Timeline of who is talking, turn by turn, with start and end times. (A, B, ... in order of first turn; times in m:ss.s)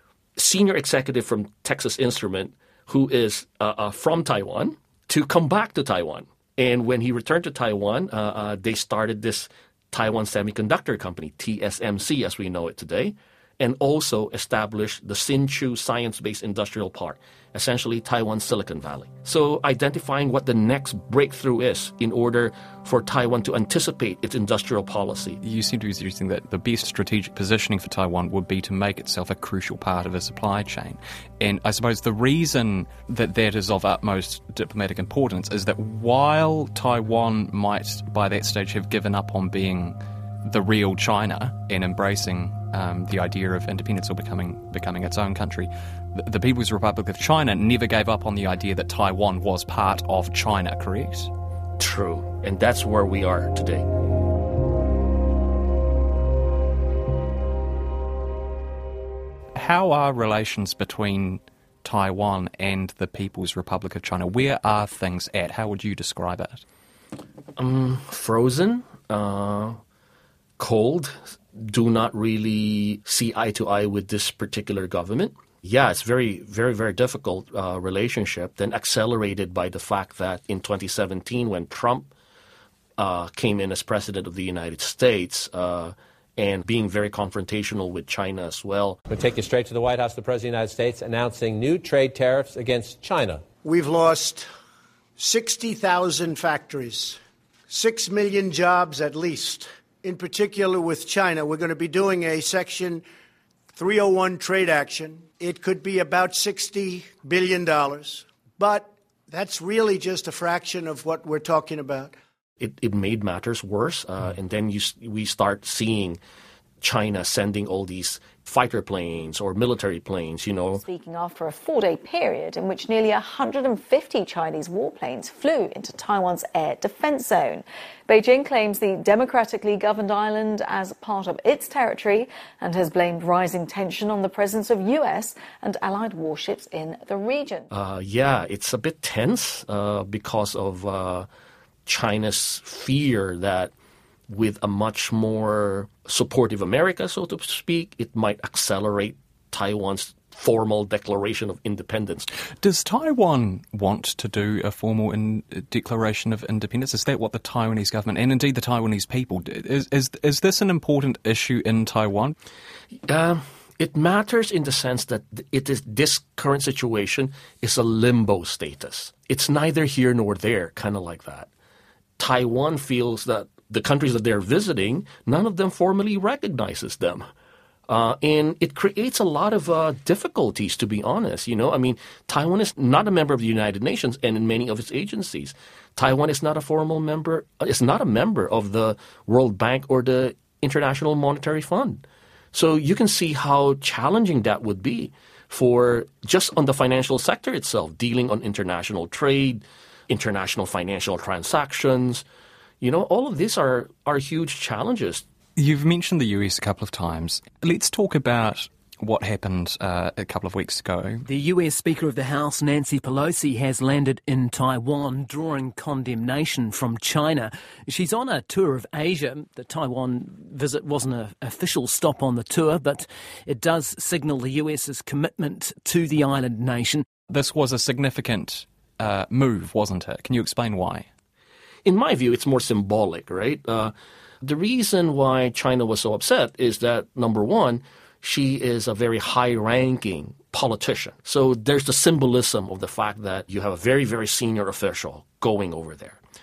0:00.4-0:25.4 A
0:25.4-0:51.3 B
0:51.8-0:53.8 A
0:59.5-1:06.6 B
1:07.6-1:09.8 A
1:10.6-1:22.1 A
1:23.0-1:29.0 A
1:29.1-1:33.4 C
1:33.6-1:34.5 D
1:35.2-1:37.2 D
1:37.7-1:43.0 D
1:43.7-1:52.1 D
1:52.6-1:56.2 A
1:56.8-2:00.8 A
2:00.7-2:17.6 E
2:17.7-2:21.3 A
2:21.8-2:23.7 A
2:24.3-2:32.3 A
2:32.6-2:42.3 B
2:43.1-2:51.5 A
2:52.2-2:57.3 A
2:57.9-3:12.0 A
3:12.5-3:22.2 A
3:22.8-3:25.2 A
3:25.6-3:31.2 B
3:31.2-3:47.0 F
3:47.3-3:51.1 B
3:51.8-4:06.2 A